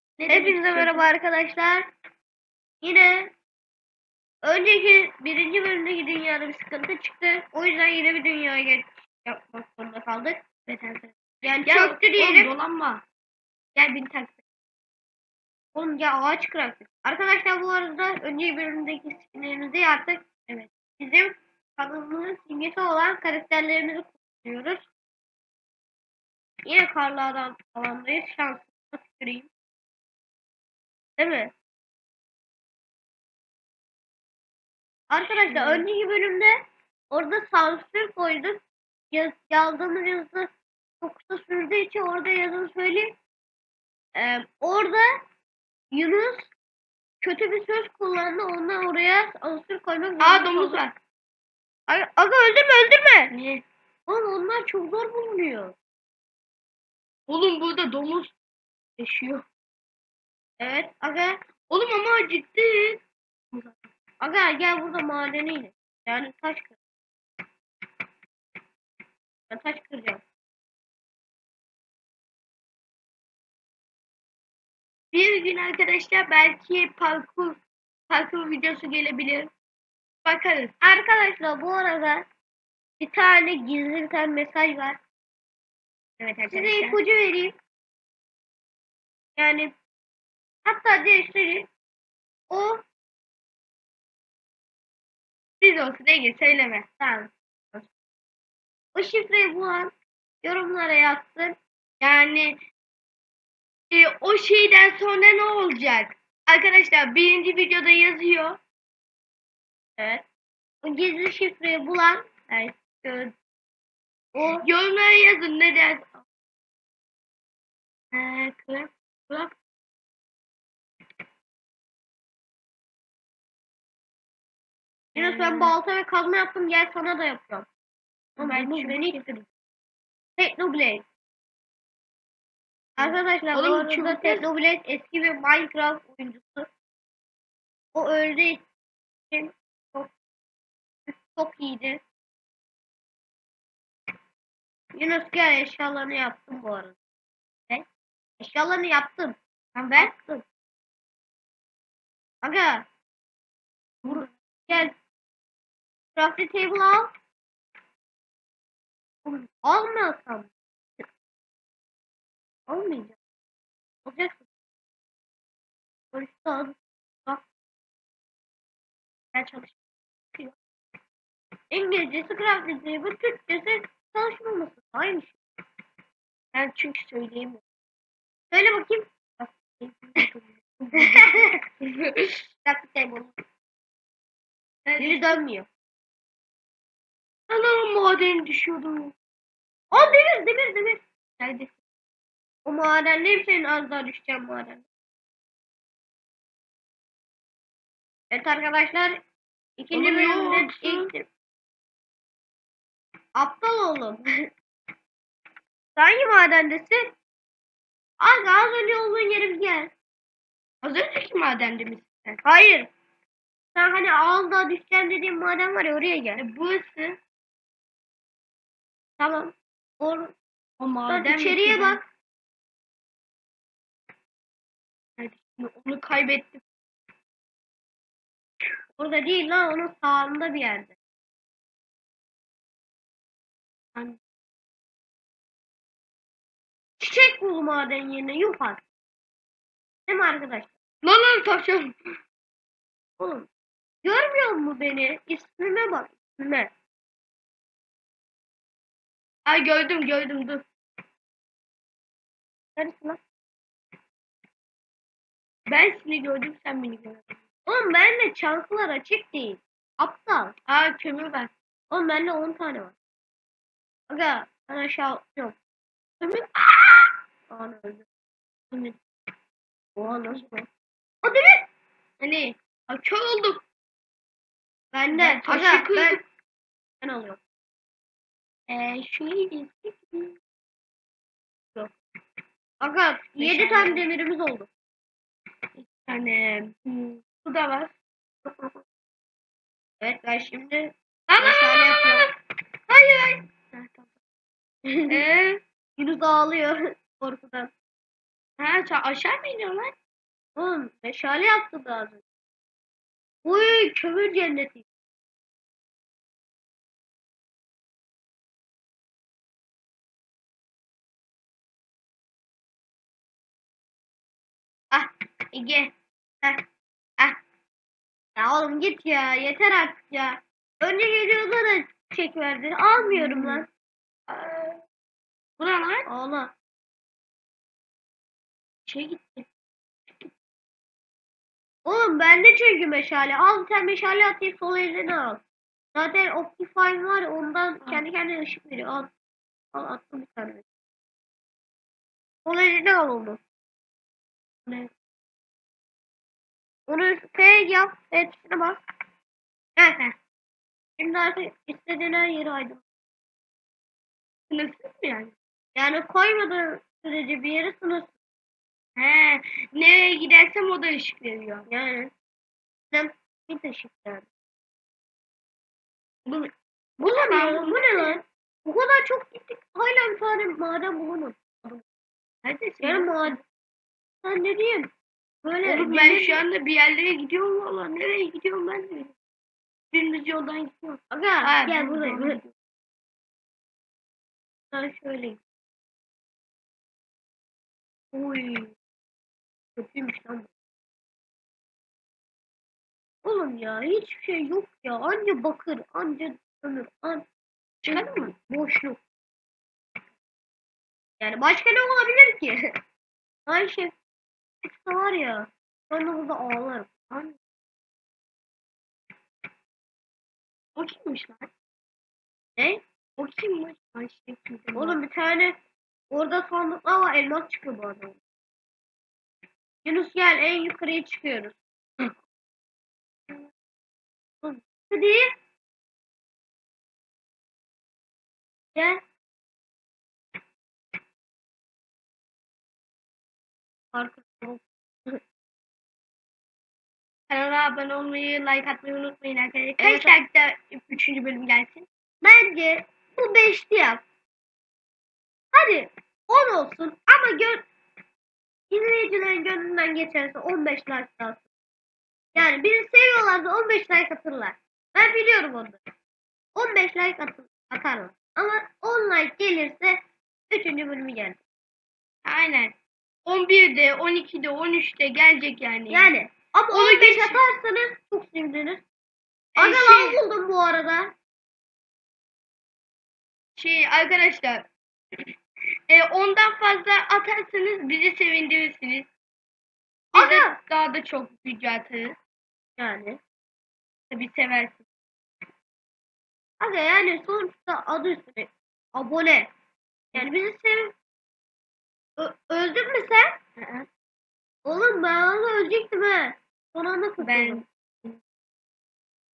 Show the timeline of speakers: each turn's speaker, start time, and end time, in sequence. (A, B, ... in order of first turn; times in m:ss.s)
0:00.2-0:01.1 A
0:00.3-0:01.9 B
0:02.8-0:03.3 B
0:04.4-0:10.4 B
0:10.7-0:13.0 A
0:11.4-0:12.5 B
0:13.8-0:14.4 A
0:15.8-0:20.5 B
0:21.0-0:24.9 B
0:26.7-0:29.5 B
0:31.2-0:31.5 B
0:35.1-0:36.6 B
0:35.3-0:35.9 A
0:37.1-0:40.5 B
0:41.0-0:43.2 B
0:44.2-0:45.2 B
0:45.9-0:46.5 B
0:47.2-0:50.8 B
0:50.2-0:51.0 A
0:51.9-0:53.3 B
0:53.3-0:53.6 A
0:54.1-0:55.8 B
0:57.3-0:58.4 A
0:59.0-0:59.4 A
1:00.6-1:01.4 B
1:01.7-1:03.0 A
1:03.5-1:03.9 A
1:04.2-1:06.8 B
1:09.5-1:10.2 B
1:15.1-1:19.5 A
1:20.2-1:20.7 A
1:20.8-1:22.3 B
1:23.0-1:25.0 B
1:26.2-1:27.0 A
1:26.5-1:27.6 B
1:29.4-1:29.7 B
1:30.6-1:31.7 B
1:32.5-1:32.8 B
1:35.6-1:36.9 A
1:37.0-1:37.9 B
1:39.0-1:41.6 B
1:42.0-1:42.6 A
1:43.9-1:48.6 A
1:50.0-1:50.2 B
1:50.8-1:53.3 B
1:54.3-1:54.7 B
1:54.6-1:56.2 A
1:58.1-1:59.6 A
2:05.2-2:05.8 A
2:05.2-2:07.7 B
2:08.4-2:09.5 A
2:08.4-2:09.2 B
2:10.4-2:11.1 B
2:13.0-2:14.5 A
2:13.0-2:16.7 B
2:17.9-2:18.6 B
2:19.3-2:20.1 B
2:21.2-2:22.0 B
2:25.0-2:27.0 B
2:28.4-2:29.4 B
2:29.8-2:30.1 A
2:30.0-2:30.4 B
2:32.4-2:32.9 B
2:34.1-2:35.0 B
2:36.2-2:37.1 B
2:39.2-2:40.5 B
2:42.7-2:43.2 B
2:44.0-2:44.5 B
2:46.1-2:47.4 B
2:49.3-2:49.8 A
2:51.7-2:55.4 B
2:56.5-2:57.6 A
2:58.5-2:59.9 B
3:00.1-3:01.3 A
3:01.0-3:01.6 B
3:01.8-3:02.4 A
3:02.6-3:03.4 B
3:04.9-3:05.4 A
3:05.0-3:05.7 B
3:07.5-3:09.2 A
3:09.9-3:11.0 B
3:11.4-3:11.8 A
3:12.6-3:14.9 B
3:18.3-3:19.2 B
3:19.8-3:21.3 B
3:19.9-3:21.1 A
3:23.4-3:24.2 B
3:26.0-3:27.2 B
3:28.2-3:29.9 B
3:30.8-3:32.4 A
3:32.4-3:32.9 B
3:33.8-3:36.4 B
3:36.4-3:37.2 A
3:39.2-3:40.4 B
3:40.8-3:42.0 A
3:41.1-3:42.0 B
3:45.2-3:46.6 A
3:49.0-3:51.0 B
3:57.0-3:58.8 B
4:00.1-4:00.7 B
4:01.0-4:02.0 A
4:03.2-4:03.5 B
4:04.0-4:06.7 B
4:09.5-4:10.6 A
4:12.8-4:13.2 B
4:15.7-4:17.4 A
4:17.7-4:20.5 B
4:20.7-4:21.5 A
4:21.9-4:23.0 B
4:24.1-4:25.6 B
4:26.2-4:27.2 A
4:27.5-4:28.1 B
4:28.7-4:29.0 A
4:30.0-4:30.7 B
4:31.2-4:31.7 B
4:32.2-4:33.6 A
4:34.9-4:36.2 B
4:35.1-4:36.2 A
4:37.0-4:37.4 B
4:38.7-4:40.4 A
4:42.8-4:44.7 B
4:43.4-4:44.0 A
4:45.8-4:47.9 A
4:48.4-4:48.8 A
4:50.0-4:52.2 B
4:51.3-4:52.3 A
4:52.9-4:54.1 A
4:54.9-4:55.2 B
4:55.1-4:55.6 A
4:56.0-4:57.7 B
4:58.6-5:00.0 A
5:00.6-5:02.2 B
5:03.4-5:04.8 B
5:14.9-5:15.9 A
5:18.4-5:23.7 B
5:23.0-5:23.7 A
5:24.3-5:24.8 A
5:25.6-5:26.1 A
5:26.1-5:26.5 B
5:28.9-5:29.5 A
5:31.8-5:35.4 B
5:36.0-5:39.1 B
5:39.7-5:40.6 B
5:42.4-5:43.4 B
5:46.9-5:48.8 B
5:49.8-5:50.0 B
5:51.0-5:52.8 B
5:54.5-5:55.3 A
5:55.8-5:58.1 B
5:59.0-6:01.7 A
6:01.7-6:02.1 B
6:02.9-6:04.3 B
6:07.0-6:08.1 A
6:07.0-6:11.8 B
6:12.4-6:13.4 A
6:12.8-6:13.4 B
6:14.2-6:14.9 B
6:15.4-6:16.4 B
6:15.6-6:19.2 A
6:19.9-6:22.5 A
6:21.1-6:22.4 B
6:24.7-6:25.4 B
6:28.1-6:28.7 B
6:29.8-6:30.5 B
6:33.2-6:37.2 B
6:37.8-6:38.3 A
6:37.9-6:39.0 B
6:41.2-6:42.7 B
6:43.5-6:44.0 B
6:44.6-6:46.9 B
6:47.1-6:47.4 A
6:50.8-6:51.5 A
6:52.6-6:52.8 B
6:53.2-6:55.0 A
6:54.8-6:55.6 B
6:56.1-6:58.2 B
6:59.8-7:01.6 B
7:04.4-7:05.4 B
7:08.8-7:09.0 B
7:13.9-7:15.2 B
7:17.3-7:21.9 A
7:19.8-7:20.2 B
7:22.2-7:24.0 B
7:25.5-7:27.6 B
7:28.7-7:31.4 B
7:32.4-7:35.8 B
7:36.6-7:41.4 B
7:42.2-7:46.1 A
7:45.9-7:48.8 B
7:46.7-7:47.4 A
7:49.6-7:50.2 A
7:49.6-7:51.1 B
7:53.6-7:54.7 A
7:55.9-7:59.1 A
8:00.2-8:00.6 B
8:00.2-8:02.2 A
8:02.8-8:03.2 B
8:04.1-8:04.9 A
8:06.6-8:09.5 B
8:10.1-8:10.9 B
8:12.2-8:13.4 B
8:13.6-8:13.9 A
8:14.6-8:17.7 B
8:17.2-8:18.2 A